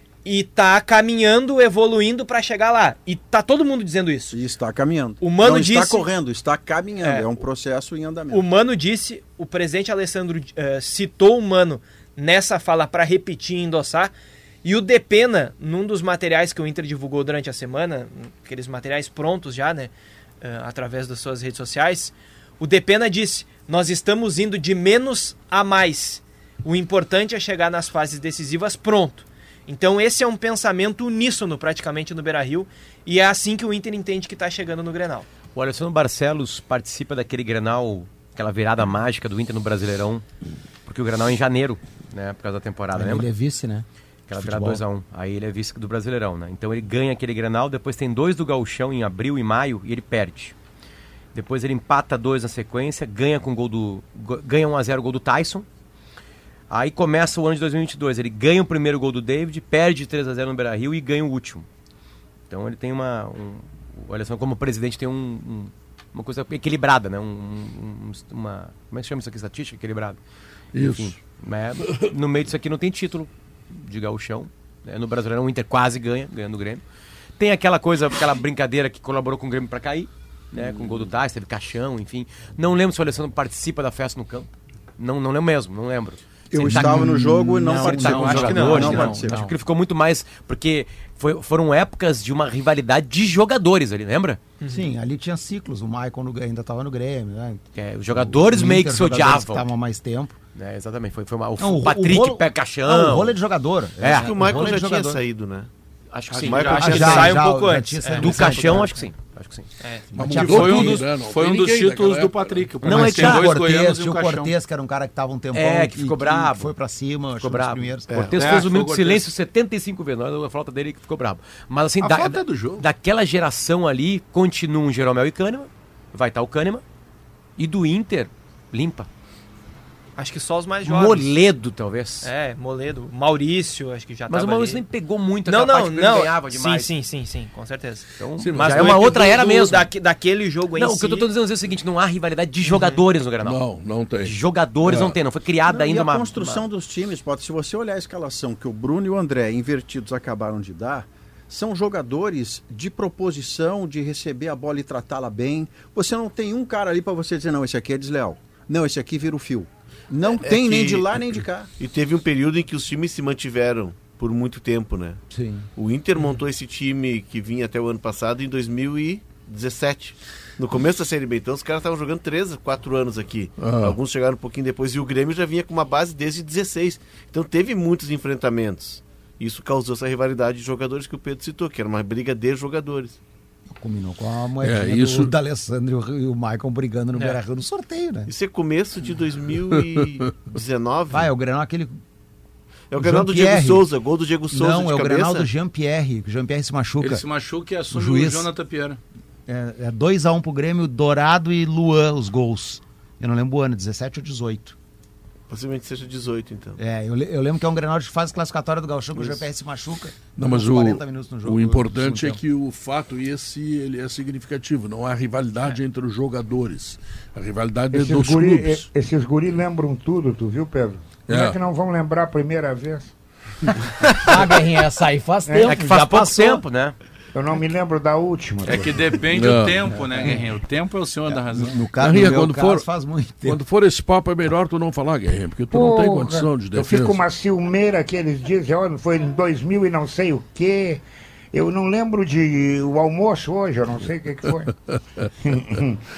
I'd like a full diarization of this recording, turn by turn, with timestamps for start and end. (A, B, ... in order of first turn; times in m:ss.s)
0:00.2-0:04.4 A
0:04.3-0:08.5 B
0:05.2-0:06.1 A
0:07.0-0:07.3 A
0:08.3-0:14.1 A
0:14.6-0:35.3 A
0:35.5-0:40.2 C
0:40.8-0:43.3 C
0:42.9-0:44.8 D
0:44.3-0:50.5 C
0:51.3-0:55.6 C
0:56.7-1:01.7 C
1:02.5-1:10.2 C
1:10.7-1:11.2 E
1:10.8-1:16.8 C
1:11.8-1:12.1 E
1:17.4-1:34.4 C
1:20.6-1:20.9 E
1:26.5-1:29.4 B
1:26.5-1:29.5 D
1:27.8-1:29.1 F
1:34.6-1:34.9 A
1:34.6-1:40.4 D
1:37.7-1:39.7 C
1:40.5-1:43.4 C
1:41.6-1:45.2 D
1:44.0-1:44.3 C
1:44.1-1:45.7 G
1:46.1-1:47.3 C
1:46.3-1:47.4 F
1:46.4-1:47.3 G
1:46.8-1:49.0 D
1:47.0-1:49.0 A
1:48.2-1:49.7 C
1:49.8-1:50.1 A
1:50.1-1:51.1 D
1:50.1-1:52.7 E
1:50.3-1:54.5 F
1:52.8-1:53.5 C
1:52.8-1:58.2 D
1:55.5-1:56.7 C
1:57.4-2:06.8 C
1:58.1-1:58.5 G
1:58.3-1:59.3 F
2:02.0-2:02.8 F
2:07.6-2:09.1 C
2:10.2-2:11.3 A
2:10.8-2:12.3 C
2:12.2-2:14.8 A
2:14.3-2:16.9 C
2:15.4-2:21.3 A
2:18.2-2:19.8 C
2:18.4-2:19.4 E
2:20.8-2:23.6 C
2:22.7-2:23.0 A
2:23.4-2:25.2 E
2:24.2-2:26.6 C
2:25.6-2:41.7 B
2:40.3-2:45.2 G
2:45.3-2:45.7 D
2:45.7-3:03.2 G
2:53.6-2:54.0 E
3:03.7-3:08.3 D
3:04.6-3:05.3 E
3:08.3-3:11.3 G
3:09.8-3:10.3 E
3:11.1-3:12.0 D
3:12.9-3:15.5 G
3:13.0-3:13.8 D
3:14.5-3:17.2 D
3:17.0-3:19.0 F
3:17.9-3:18.5 D
3:19.5-3:24.7 D
3:25.5-3:26.8 G
3:26.8-3:32.4 D
3:30.3-3:38.8 E
3:37.9-3:43.1 H
3:41.3-3:41.6 E
3:44.0-3:46.6 D
3:45.4-3:46.2 H
3:45.6-3:46.9 C
3:47.3-3:49.2 H
3:48.6-3:51.8 F
3:49.3-3:49.9 E
3:51.3-3:53.6 D
3:52.0-3:52.9 E
3:53.4-3:57.2 E
3:55.7-4:04.7 H
4:05.4-4:06.0 H